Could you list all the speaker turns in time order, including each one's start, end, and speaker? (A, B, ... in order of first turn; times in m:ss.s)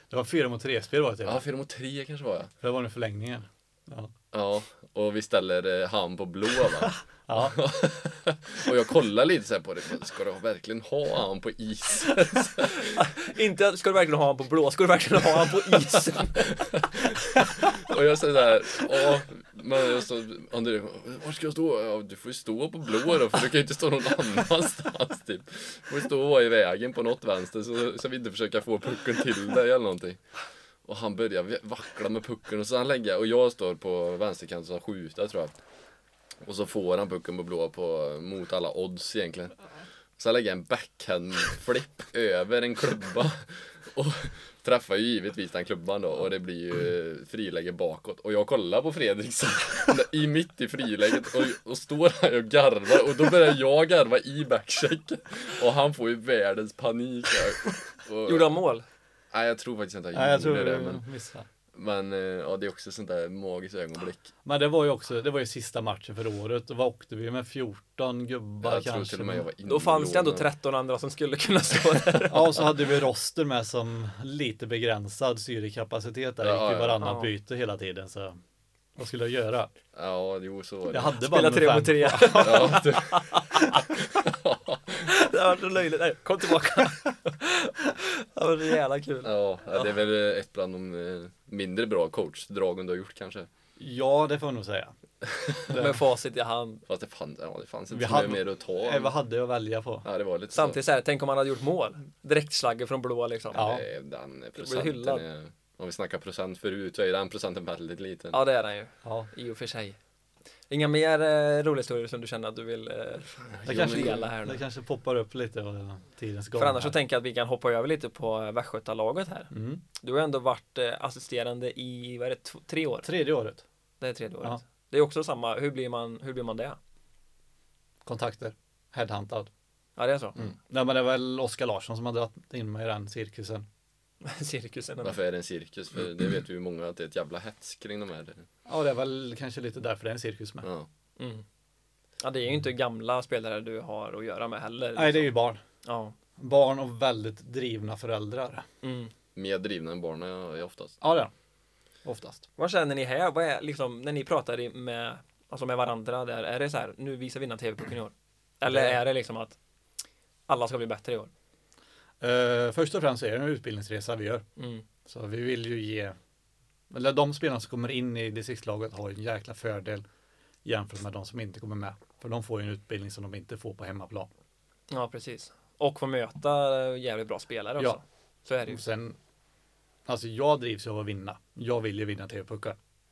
0:00.1-0:01.4 A
0:01.2-0:02.5 B
0:02.6-0:04.1 A
0:04.3-0:13.0 B
0:07.3-0:07.6 A
0:12.7-0:16.4 C
0:16.4-0:30.2 B
0:30.8-0:35.6 B
0:36.4-0:39.6 B
0:40.2-0:58.5 B
0:58.2-0:58.8 C
0:59.3-1:01.0 B
1:00.1-1:01.5 A
1:01.7-1:04.3 B
1:04.4-1:09.5 A
1:08.6-1:10.5 B
1:09.7-1:12.7 C
1:12.3-1:18.4 A
1:16.4-1:17.0 B
1:17.0-1:17.3 C
1:19.0-1:19.7 A
1:19.9-1:21.2 B
1:20.9-1:22.9 A
1:21.2-1:23.8 C
1:22.3-1:25.1 B
1:25.0-1:29.3 C
1:29.2-1:33.5 B
1:33.8-1:35.0 A
1:35.2-1:35.7 B
1:35.7-1:36.0 A
1:35.7-1:36.8 C
1:36.9-1:39.1 B
1:37.9-1:40.1 A
1:40.0-1:40.8 B
1:40.5-1:43.6 C
1:43.5-1:48.4 B
1:43.6-1:43.8 A
1:44.6-1:45.2 C
1:48.3-1:50.0 C
1:49.0-1:49.3 A
1:50.7-1:54.6 C
1:53.5-1:54.3 B
1:53.7-1:56.9 A
1:56.6-2:03.1 C
1:59.5-1:59.8 A
2:03.0-2:03.6 A
2:04.0-2:06.8 C
2:08.0-2:09.5 A
2:10.0-2:10.4 C
2:10.4-2:13.7 A
2:14.2-2:15.2 C
2:15.0-2:18.5 B
2:18.7-2:20.7 A
2:20.6-2:20.9 B
2:21.2-2:21.4 C
2:22.2-2:25.3 C
2:25.0-2:25.6 A
2:25.8-2:26.2 C
2:26.4-2:28.7 A
2:28.8-2:29.1 C
2:29.4-2:31.0 B
2:31.0-2:31.3 A
2:32.0-2:32.5 A
2:32.6-2:39.6 C
2:38.7-2:39.0 A
2:40.5-2:41.3 C
2:42.2-2:44.4 A
2:44.6-2:44.9 C
2:45.0-2:46.2 A
2:46.9-2:50.0 A
2:50.6-2:54.3 A
2:54.9-2:58.8 C
2:58.7-2:59.2 A
3:00.1-3:02.8 A